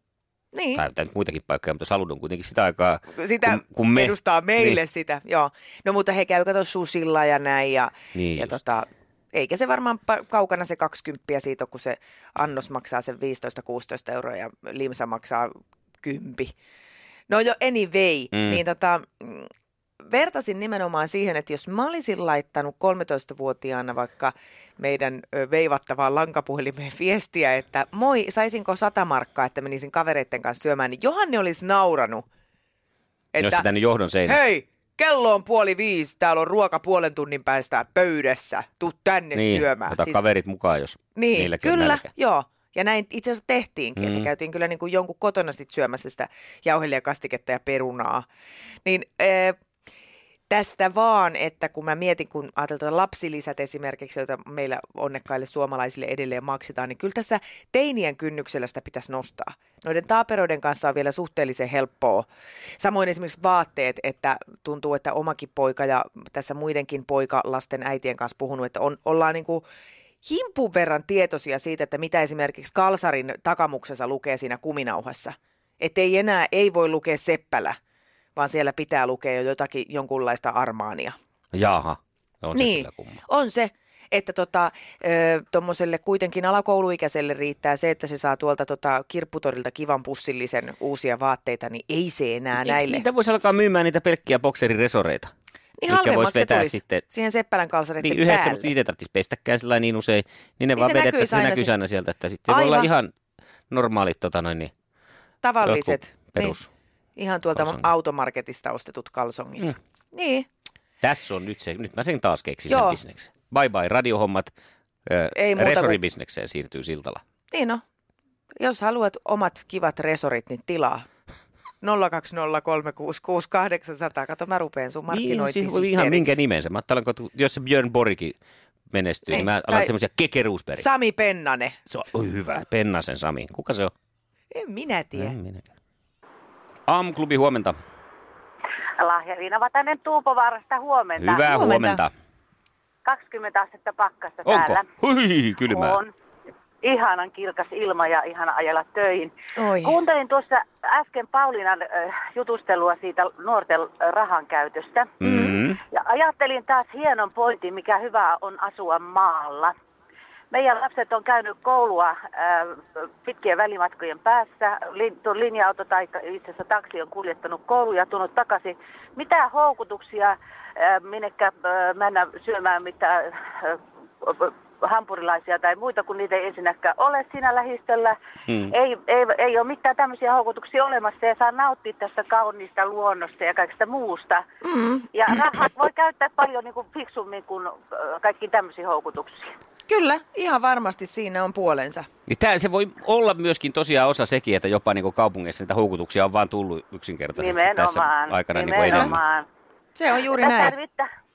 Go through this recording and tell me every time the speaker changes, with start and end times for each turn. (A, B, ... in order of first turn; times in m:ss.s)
0:00.5-0:00.8 A
0:00.8-0:04.8 B
0:03.2-0:16.5 A
0:08.2-0:08.6 B
0:17.3-0:19.5 A
0:18.3-0:18.6 B
0:20.0-0:32.2 A
0:33.3-0:33.7 A
0:33.4-0:34.4 B
0:34.3-0:40.2 A
0:39.3-0:42.1 B
0:41.2-0:48.2 A
0:44.0-0:44.3 B
0:48.8-0:49.6 A
0:50.5-1:02.3 A
1:02.8-1:09.7 A
1:10.2-1:17.8 A
1:18.4-1:21.2 A
1:21.5-1:23.2 B
1:22.5-1:33.0 A
1:32.6-1:35.3 B
1:35.8-1:38.7 A
1:35.9-1:37.1 B
1:38.0-1:43.1 B
1:40.8-1:41.7 A
1:42.5-1:42.9 A
1:43.7-1:44.7 B
1:45.4-1:46.6 A
1:45.6-1:46.7 B
1:47.2-1:50.5 A
1:47.6-1:47.8 B
1:51.0-1:54.5 B
1:52.7-1:53.0 A
1:55.1-1:57.2 B
1:55.4-1:56.0 A
1:57.5-1:57.8 A
1:58.6-2:01.1 A
2:01.8-2:06.4 A
2:05.1-2:08.4 B
2:08.9-2:10.9 B
2:09.3-2:09.9 A
2:10.8-2:11.8 A
2:11.9-2:13.9 B
2:14.5-2:15.3 A
2:15.2-2:15.7 B
2:16.9-2:17.8 B
2:19.0-2:21.5 C
2:21.2-2:22.1 B
2:21.4-2:22.0 A
2:23.0-2:24.9 C
2:24.5-2:26.0 B
2:25.7-2:26.1 C
2:26.8-2:29.3 C
2:29.6-2:30.0 A
2:29.8-2:35.1 C
2:35.2-2:35.8 B
2:35.2-2:35.6 A
2:35.9-2:39.7 C
2:40.5-2:58.2 C
2:58.5-2:58.7 B
2:58.7-3:04.4 C
3:04.6-3:05.4 A
3:05.1-3:09.5 C
3:09.9-3:12.1 A
3:12.3-3:19.2 B
3:17.4-3:19.5 C
3:18.9-3:19.1 A
3:20.0-3:20.8 A
3:20.3-3:21.1 C